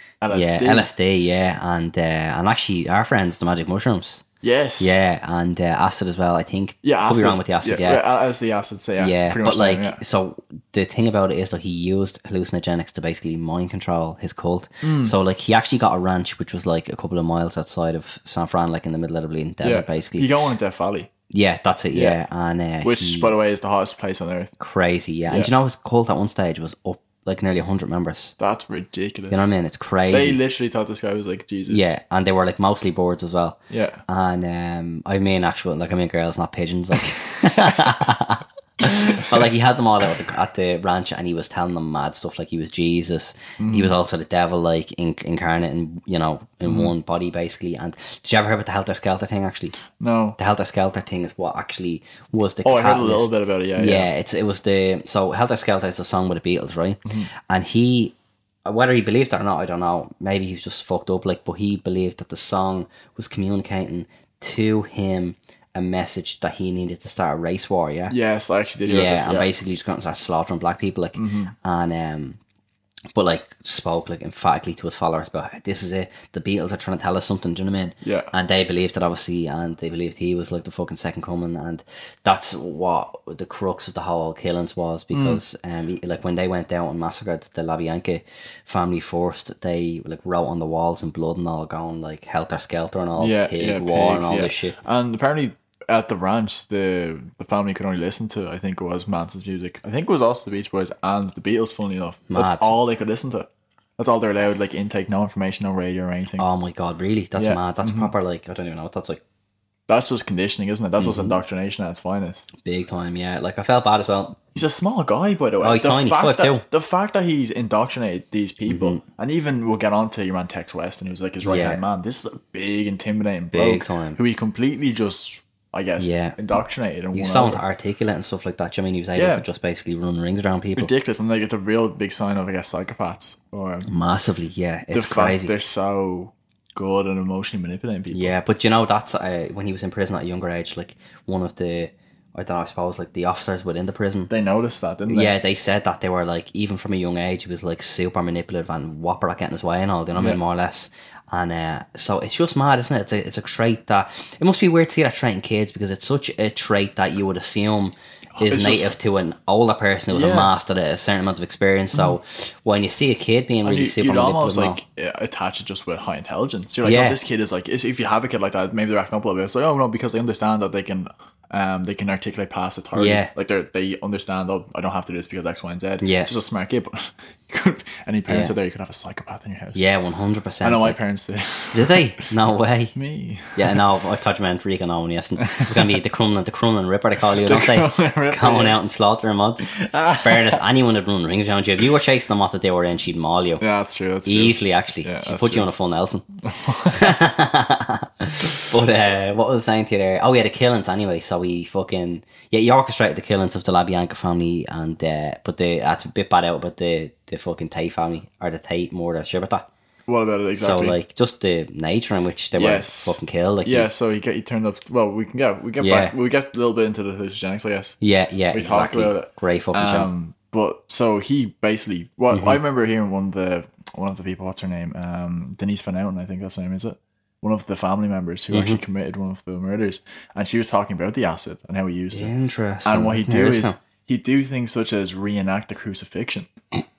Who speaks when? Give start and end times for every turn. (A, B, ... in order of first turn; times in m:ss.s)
0:00.2-0:00.9 A
0:00.3-0:04.2 B
0:04.4-0:05.0 A
0:04.8-0:08.0 B
0:06.8-0:10.0 A
0:09.0-0:20.3 B
0:14.8-0:15.2 A
0:19.6-0:21.1 A
0:21.3-0:23.3 B
0:21.9-0:22.2 A
0:22.8-0:24.5 A
0:24.6-0:28.3 B
0:28.4-0:29.5 A
0:29.3-0:30.4 B
0:30.1-0:31.9 A
0:31.7-0:49.8 B
0:33.7-0:34.0 A
0:43.6-0:43.9 A
0:46.6-0:46.9 A
0:49.9-0:50.4 A
0:50.4-0:58.1 B
0:52.6-0:54.1 A
0:58.6-1:08.1 B
1:08.1-1:09.5 A
1:08.8-1:12.4 B
1:11.1-1:11.5 A
1:13.1-1:34.8 B
1:18.0-1:18.3 A
1:25.1-1:25.4 A
1:33.2-1:46.5 A
1:42.3-1:42.7 B
1:46.4-1:49.2 B
1:47.4-1:48.1 A
1:49.9-1:52.5 A
1:51.0-1:51.4 B
1:52.6-1:54.4 B
1:54.5-2:07.6 A
1:55.6-1:56.6 B
1:58.7-1:59.0 B
2:01.4-2:01.8 B
2:03.5-2:04.2 B
2:06.0-2:06.4 B
2:07.1-2:10.9 B
2:09.2-2:09.4 A
2:10.8-2:13.9 A
2:13.8-2:15.5 B
2:14.9-2:18.3 A
2:18.1-2:24.3 B
2:24.3-2:25.3 A
2:25.1-2:44.8 B
2:30.1-2:30.4 A
2:38.4-2:38.9 A
2:40.1-2:40.5 A
2:43.6-2:59.9 A
2:46.8-2:47.2 B
2:52.9-2:53.3 B
2:56.0-2:56.3 B
2:58.3-2:58.5 B
2:59.7-3:01.0 B
3:00.6-3:02.0 A
3:01.7-3:02.9 B
3:02.9-3:03.8 A
3:03.5-3:13.6 B
3:05.5-3:06.0 A
3:07.4-3:08.9 A
3:09.8-3:10.6 A
3:13.6-3:15.7 A
3:14.2-3:16.2 B
3:16.4-3:17.2 A
3:16.9-3:29.7 B
3:30.1-3:31.0 A
3:30.6-3:33.9 B
3:32.5-3:38.0 A
3:35.8-3:36.1 B
3:38.0-3:40.1 B
3:38.5-3:52.3 A
3:42.3-3:42.6 B
3:48.5-3:48.8 B
3:52.1-3:53.8 B
3:52.8-3:56.5 A